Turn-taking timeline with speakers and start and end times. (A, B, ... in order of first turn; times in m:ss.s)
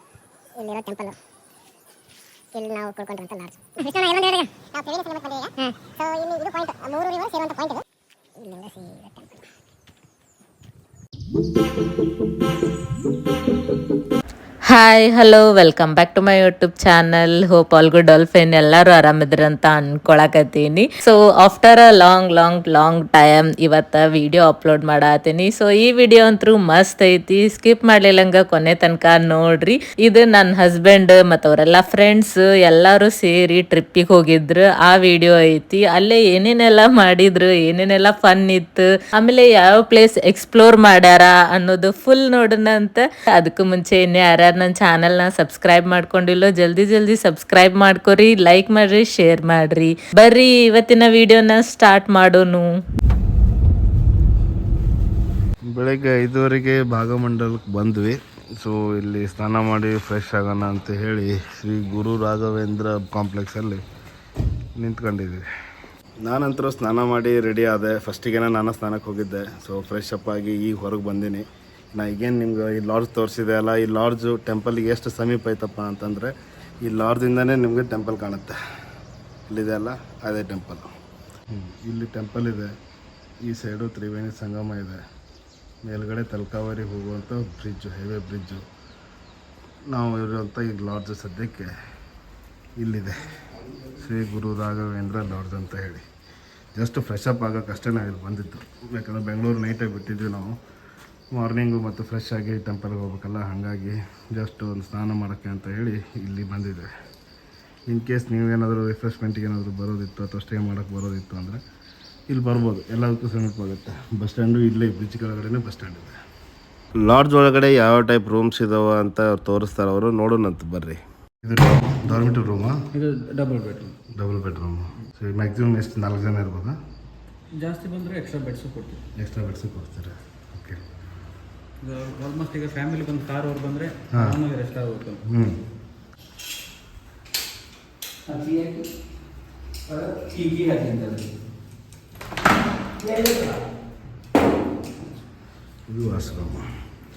0:00.6-0:01.2 A
0:02.5-0:07.8 A
0:08.4-0:09.4 A
0:14.7-0:52.7 B
0:55.7-1:03.8 C
1:04.8-1:05.4 C
1:06.2-1:18.6 C
1:19.5-1:20.9 C
1:21.5-1:22.7 C
1:23.4-1:25.0 C
1:25.8-1:28.6 C
1:29.9-1:31.7 C
1:32.8-1:33.3 C
1:34.0-1:36.0 C
1:36.8-1:40.6 C
1:41.3-1:46.9 C
1:47.9-1:51.6 C
1:52.3-1:56.2 C
1:57.0-2:02.8 C
2:02.9-2:04.0 D
2:04.1-2:06.8 C
2:07.6-2:09.0 D
2:09.2-2:10.8 C
2:11.8-2:15.2 D
2:14.1-2:14.4 C
2:15.2-2:15.6 C
2:18.3-2:18.9 D
2:19.9-2:21.3 D
2:23.0-2:23.6 D
2:25.9-2:26.7 C